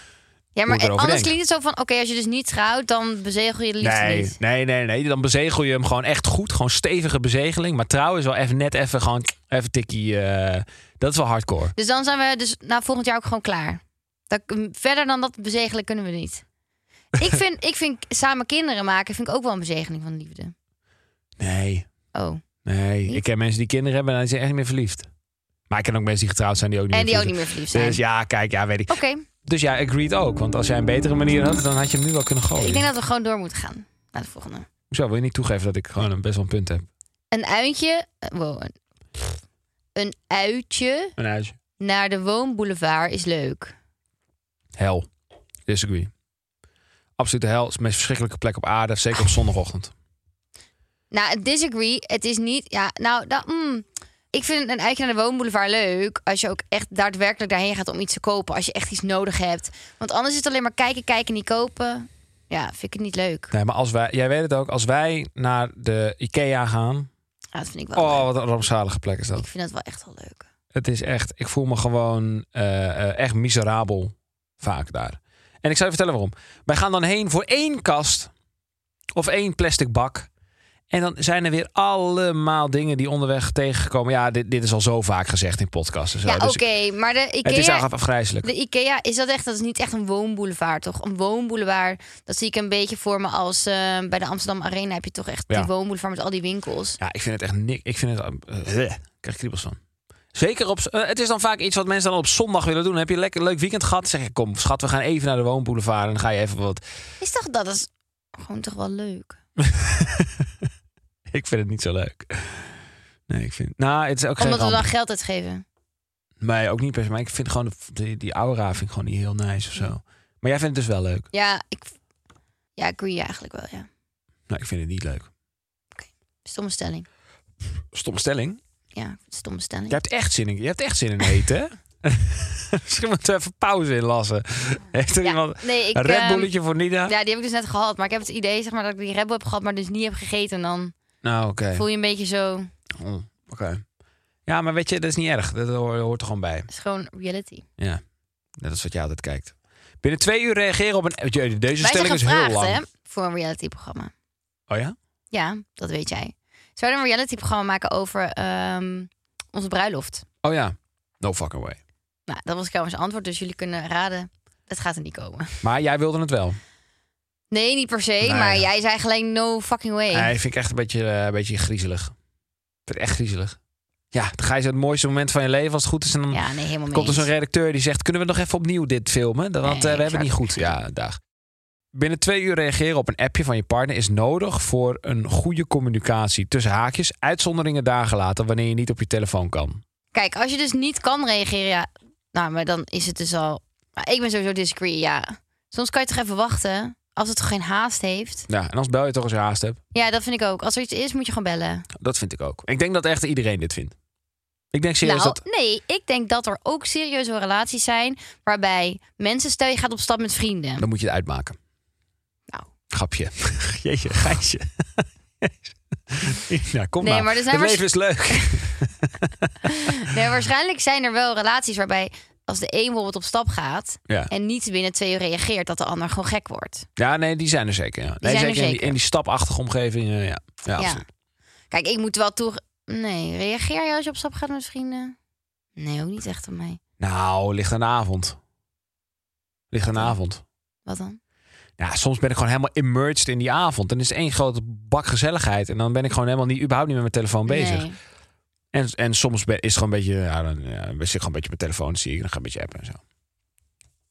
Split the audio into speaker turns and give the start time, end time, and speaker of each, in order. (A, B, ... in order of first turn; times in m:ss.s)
0:00.6-0:04.4 A
0:00.7-0:01.3 B
0:03.8-0:11.7 B
0:11.8-0:16.4 A
0:17.1-0:20.5 A
0:21.4-0:21.9 B
0:22.1-0:22.4 A
0:22.6-0:25.1 B
0:25.7-0:32.9 B
0:26.9-0:28.0 A
0:28.9-0:29.2 A
0:32.6-0:34.6 A
0:34.9-0:36.8 B
0:37.3-0:38.7 A
0:40.0-0:41.2 A
0:41.2-0:41.6 B
0:41.8-0:43.7 A
0:44.8-0:45.1 B
0:45.7-0:46.1 B
0:47.2-0:49.9 B
0:51.1-1:03.5 A
1:03.5-1:07.1 B
1:07.5-1:08.3 A
1:07.9-1:09.4 B
1:09.4-1:10.5 A
1:10.7-1:18.3 B
1:19.1-1:20.3 B
1:20.9-1:26.6 B
1:26.2-1:27.9 A
1:27.4-1:28.5 B
1:28.4-1:37.0 A
1:37.0-1:39.8 B
1:40.3-1:46.8 B
1:47.2-1:49.4 A
1:49.6-1:50.7 B
1:51.3-1:54.9 B
1:54.4-1:55.6 A
1:56.4-2:01.3 B
2:01.3-2:01.9 A
2:02.8-2:03.9 A
2:04.5-2:05.3 B
2:06.0-2:07.0 A
2:07.9-2:08.6 B
2:08.9-2:10.0 A
2:09.9-2:17.1 B
2:15.2-2:16.5 A
2:17.0-2:20.9 A
2:21.2-2:21.8 B
2:21.7-2:22.7 A
2:22.9-2:23.8 B
2:24.4-2:26.7 B
2:26.7-2:27.6 A
2:28.6-2:32.8 B
2:31.8-2:34.1 A
2:34.7-2:34.9 B
2:35.3-2:40.2 A
2:40.4-2:41.8 B
2:42.3-2:45.6 A
2:45.6-2:46.6 B
2:47.5-2:50.3 A
2:48.2-2:48.6 B
2:50.1-2:52.1 B
2:52.9-2:53.6 B
2:54.1-3:01.2 B
2:56.3-2:57.3 A
2:59.6-3:00.7 A
3:01.9-3:09.8 B
3:10.1-3:18.5 A
3:18.5-3:19.8 B
3:19.9-3:21.9 A
3:21.9-3:23.9 B
3:24.7-3:25.4 B
3:25.0-3:30.8 A
3:30.8-3:31.6 B
3:32.9-3:39.5 B
3:37.0-3:38.7 A
3:39.7-3:46.9 A
3:47.0-3:51.0 B
3:48.2-3:49.0 A
3:50.8-3:51.0 A
3:51.7-3:55.2 A
3:55.8-3:56.8 A
3:57.0-3:58.4 B
3:59.7-4:00.4 B
4:00.8-4:01.2 A
4:01.8-4:07.9 B
4:07.5-4:08.0 A
4:08.7-4:13.0 B